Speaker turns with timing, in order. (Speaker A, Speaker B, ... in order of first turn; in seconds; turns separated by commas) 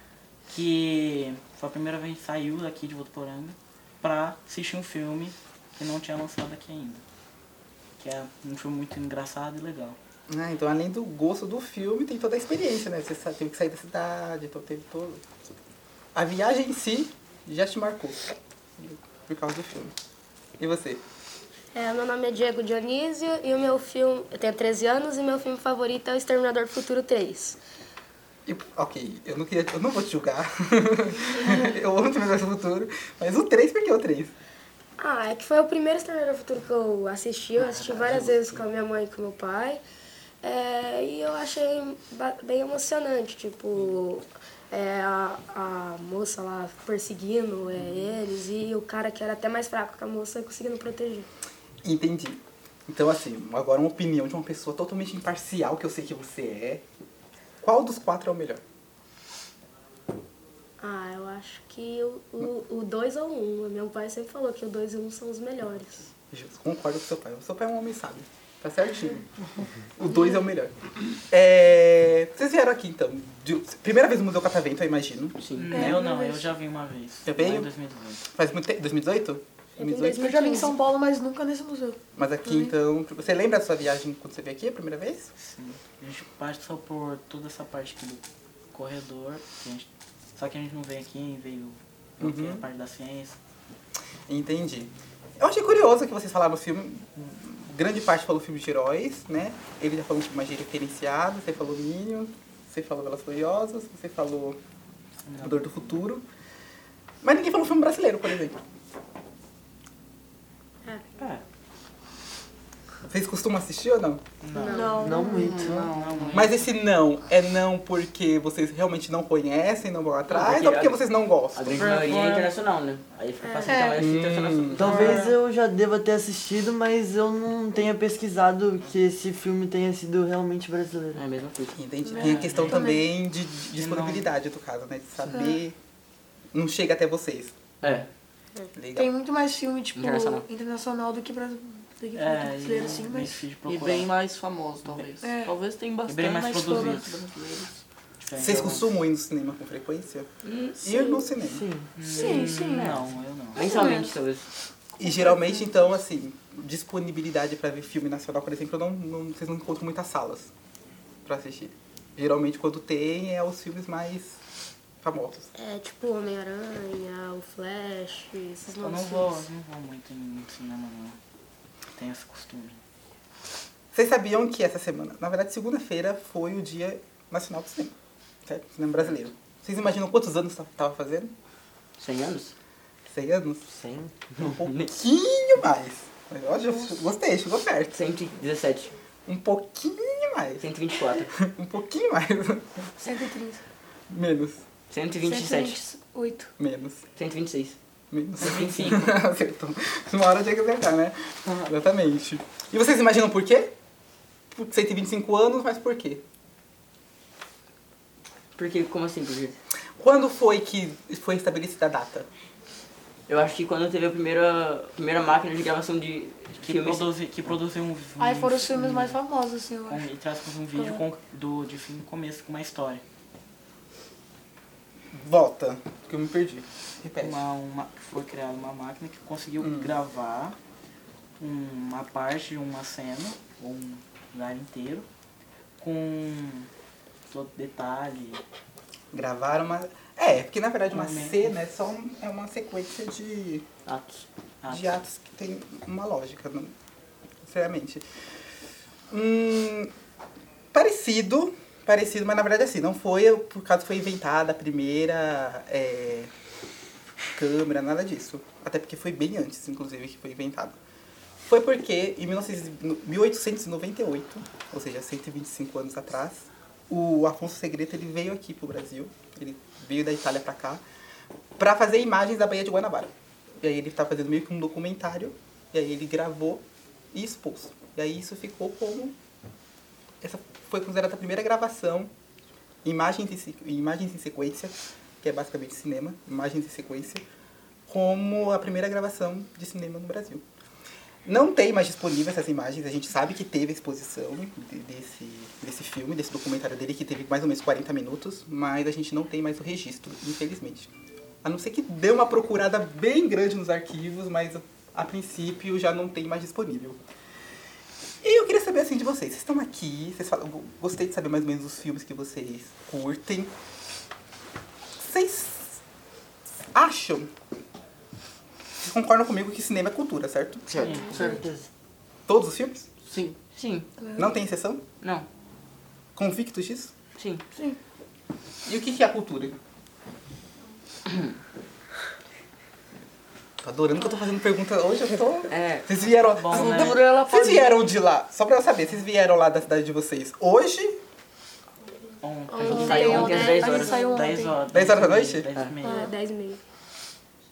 Speaker A: 0.5-7.0, Speaker A: 8.0-10.0, Speaker B: 10.3-15.2, Speaker B: 16.1-19.9, Speaker B: 20.6-21.0, Speaker C: 21.7-27.6, Speaker B: 28.4-34.3, Speaker C: 35.0-39.8, Speaker B: 37.8-38.3, Speaker C: 40.4-51.3, Speaker B: 51.8-56.8, Speaker B: 57.6-58.6, Speaker C: 60.8-66.1, Speaker B: 66.3-69.2, Speaker B: 70.0-70.7, Speaker B: 71.3-76.0, Speaker D: 75.4-75.7, Speaker A: 75.6-78.2, Speaker E: 75.7-76.5, Speaker B: 77.2-77.7, Speaker B: 78.3-80.3, Speaker C: 79.8-80.8, Speaker E: 80.1-82.7, Speaker B: 82.2-85.3, Speaker A: 85.4-93.4, Speaker B: 92.2-92.6, Speaker B: 94.3-104.6, Speaker A: 105.2-105.6, Speaker B: 105.4-106.2, Speaker B: 107.2-108.6, Speaker C: 110.8-111.2, Speaker B: 113.1-114.2, Speaker A: 114.4-115.1, Speaker C: 114.5-115.3, Speaker E: 114.7-115.6, Speaker F: 115.0-116.0, Speaker G: 115.3-116.3, Speaker A: 115.7-116.7, Speaker B: 116.3-121.8, Speaker D: 120.3-121.0, Speaker D: 121.5-125.2, Speaker A: 121.7-122.5, Speaker C: 123.4-123.8, Speaker E: 123.6-124.1, Speaker B: 124.0-124.9, Speaker F: 124.7-131.2, Speaker A: 124.9-125.3, Speaker E: 124.9-125.3, Speaker D: 131.1-131.8, Speaker B: 131.7-135.8, Speaker E: 132.1-133.0, Speaker A: 132.2-133.0, Speaker A: 133.7-134.3, Speaker E: 135.3-135.6, Speaker B: 136.5-137.5, Speaker D: 137.8-138.1, Speaker B: 138.8-139.1, Speaker E: 138.9-143.4, Speaker D: 139.9-140.4, Speaker A: 142.1-144.1, Speaker G: 143.6-147.8, Speaker E: 145.2-145.6, Speaker A: 146.1-147.1, Speaker E: 146.4-147.0, Speaker A: 148.2-148.9, Speaker B: 148.3-150.3, Speaker D: 150.4-150.8, Speaker B: 150.8-151.6, Speaker F: 151.4-151.9, Speaker A: 152.0-153.7, Speaker E: 152.1-153.0, Speaker D: 152.1-152.9, Speaker D: 153.5-154.4, Speaker E: 153.6-154.1, Speaker B: 155.0-160.5, Speaker E: 155.0-155.7, Speaker B: 161.2-164.4, Speaker B: 165.0-165.5, Speaker C: 165.5-169.4, Speaker A: 168.8-171.2, Speaker A: 171.9-172.8, Speaker B: 173.9-177.9, Speaker B: 178.4-181.3, Speaker D: 182.0-182.5, Speaker B: 183.1-183.7, Speaker F: 183.7-184.1, Speaker D: 184.3-184.9, Speaker B: 184.4-188.0, Speaker D: 187.9-188.9, Speaker B: 189.2-190.7, Speaker D: 190.6-191.3, Speaker B: 191.3-192.9, Speaker E: 193.0-193.6, Speaker B: 194.1-194.6, Speaker D: 194.9-195.8, Speaker E: 195.2-196.5, Speaker B: 196.6-197.0, Speaker D: 197.2-197.8, Speaker B: 198.1-203.7, Speaker D: 198.4-199.0, Speaker A: 198.4-199.1, Speaker B: 204.5-206.2, Speaker D: 208.6-209.6, Speaker B: 210.0-212.3, Speaker D: 213.3-217.1, Speaker A: 216.6-219.2, Speaker E: 218.2-220.0, Speaker A: 219.9-223.0, Speaker B: 225.1-227.4, Speaker A: 227.2-230.6, Speaker B: 229.6-229.9, Speaker A: 231.4-235.1, Speaker A: 235.8-236.7, Speaker A: 237.3-238.4, Speaker B: 239.1-243.7, Speaker A: 240.9-241.5, Speaker D: 243.8-244.2, Speaker B: 244.6-246.7, Speaker B: 247.4-248.0, Speaker B: 249.1-249.9, Speaker B: 250.7-256.3, Speaker B: 257.4-260.8, Speaker B: 261.4-270.8, Speaker B: 271.6-279.1, Speaker B: 280.2-282.1, Speaker B: 282.8-287.2, Speaker B: 287.9-290.4, Speaker B: 291.2-300.9, Speaker B: 301.4-307.0, Speaker B: 308.2-313.5, Speaker B: 315.0-315.8, Speaker B: 316.7-317.3, Speaker B: 318.8-320.7, Speaker F: 320.7-321.7, Speaker A: 320.8-321.1, Speaker G: 321.1-321.4, Speaker B: 322.3-322.9, Speaker G: 323.1-323.4, Speaker D: 323.5-323.9, Speaker E: 324.0-324.3, Speaker B: 324.1-324.8, Speaker B: 326.1-326.9, Speaker D: 327.2-327.4, Speaker B: 328.6-329.6, Speaker B: 333.6-341.0, Speaker D: 335.5-335.9, Speaker A: 336.3-337.0, Speaker G: 336.5-337.8, Speaker A: 342.2-346.1, Speaker C: 342.5-344.0, Speaker E: 342.6-344.6, Speaker D: 342.6-344.0, Speaker B: 344.7-345.5, Speaker C: 345.8-346.6, Speaker E: 345.8-346.1